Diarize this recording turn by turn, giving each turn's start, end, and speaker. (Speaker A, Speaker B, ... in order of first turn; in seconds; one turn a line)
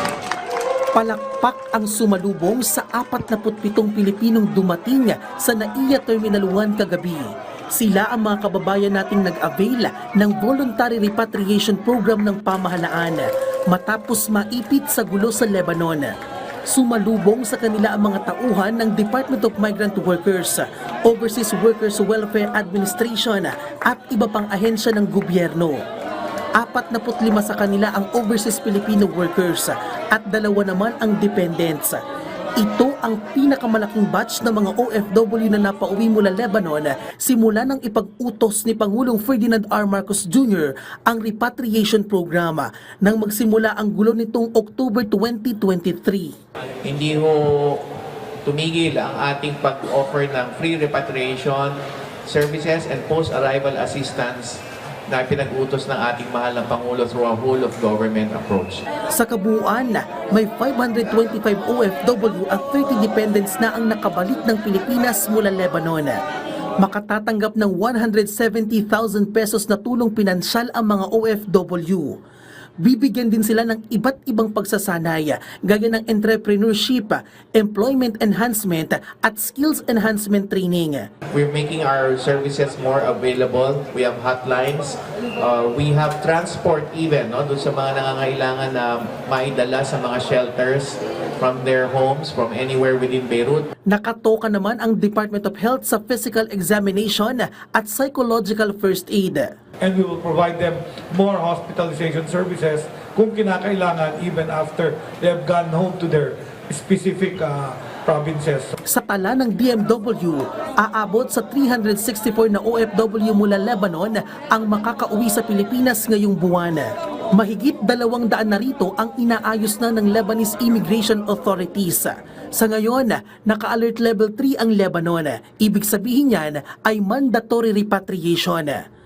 Speaker A: 0.9-16.1
Speaker A: 16.7-25.8
Speaker A: 26.6-32.0
Speaker A: 32.6-46.3
Speaker B: 46.8-47.8
Speaker B: 48.5-58.8
Speaker A: 59.1-66.2
Speaker A: 66.8-72.2
Speaker A: 72.8-81.1
Speaker B: 81.3-93.7
Speaker A: 93.9-99.5
Speaker C: 99.8-108.8
Speaker A: 108.8-128.8